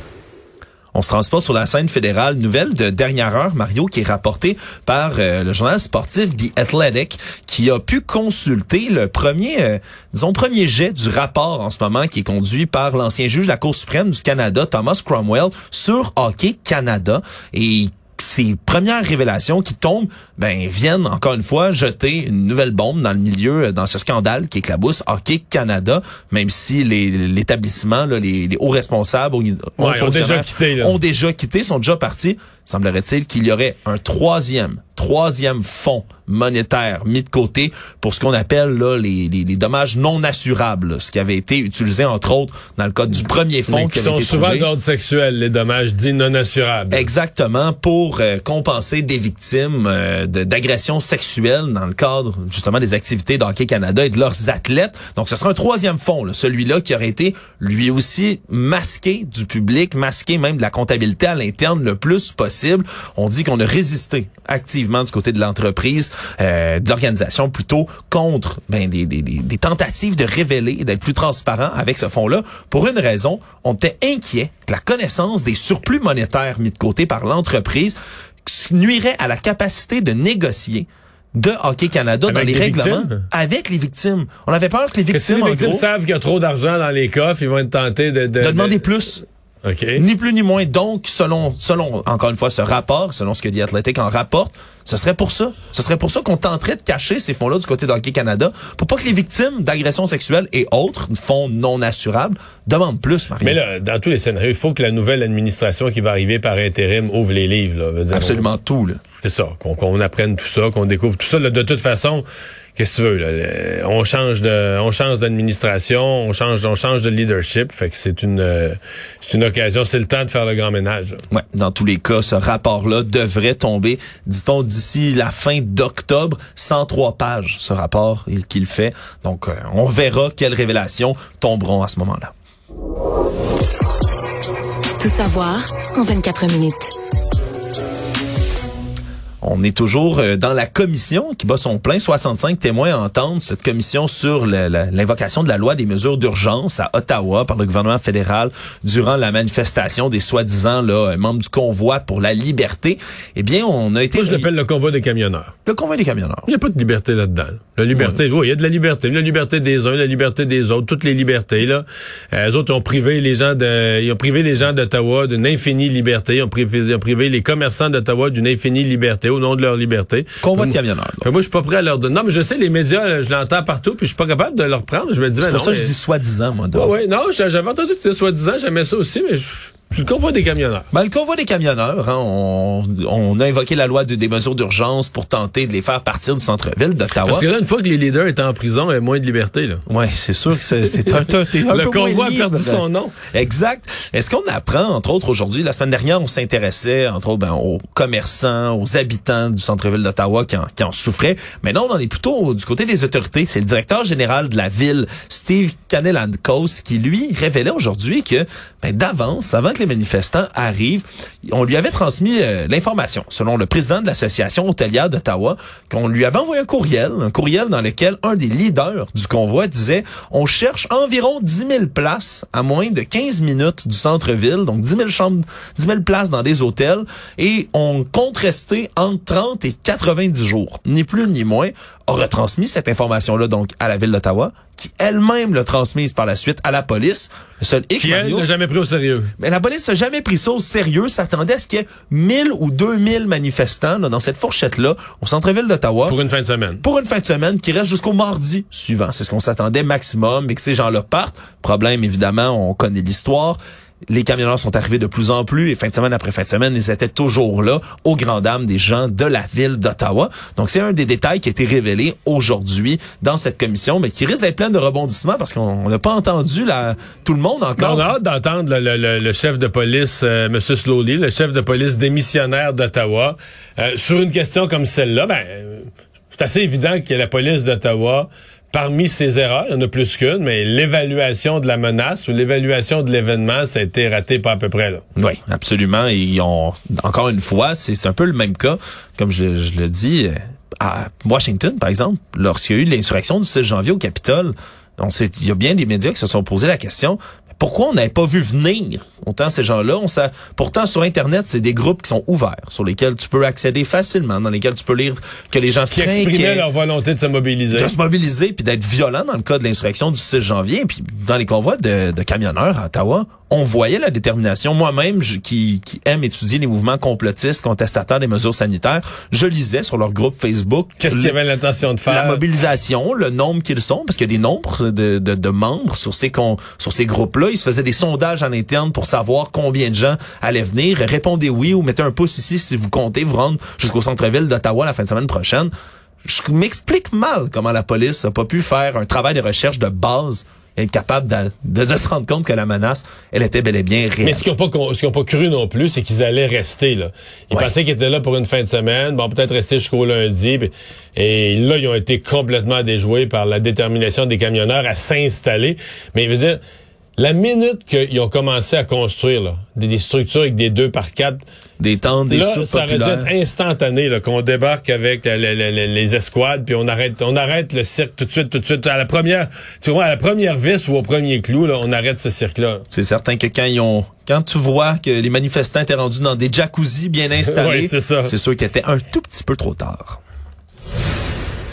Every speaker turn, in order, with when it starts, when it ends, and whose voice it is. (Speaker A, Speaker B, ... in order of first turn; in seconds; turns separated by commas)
Speaker A: 0.9-44.7, Speaker B: 29.8-31.0, Speaker B: 43.7-47.1, Speaker A: 46.9-85.9, Speaker B: 82.3-83.2, Speaker B: 85.1-88.8, Speaker A: 88.4-89.2, Speaker B: 89.6-90.0, Speaker A: 89.9-103.6, Speaker B: 103.4-108.5, Speaker A: 108.1-109.0, Speaker B: 109.2-112.2, Speaker B: 112.8-121.2, Speaker A: 121.3-132.3, Speaker C: 135.0-136.9, Speaker A: 139.4-154.5, Speaker B: 154.1-155.5, Speaker A: 155.7-156.5, Speaker B: 156.5-175.9, Speaker A: 157.9-158.2, Speaker A: 170.4-171.3, Speaker A: 175.4-176.9, Speaker B: 176.7-180.9, Speaker A: 180.9-187.4, Speaker B: 187.2-189.8, Speaker A: 189.9-238.5, Speaker B: 191.0-193.1, Speaker B: 238.0-239.3, Speaker A: 239.4-246.2, Speaker B: 246.1-246.8, Speaker A: 246.8-268.1, Speaker B: 267.8-285.0, Speaker A: 285.1-306.6, Speaker B: 305.9-307.9, Speaker A: 307.7-321.3, Speaker B: 321.0-322.4, Speaker A: 322.1-335.7, Speaker A: 336.2-344.4, Speaker B: 344.2-356.6, Speaker B: 357.2-361.4, Speaker A: 361.8-363.3, Speaker B: 362.3-372.8, Speaker A: 372.9-380.2, Speaker B: 377.4-378.3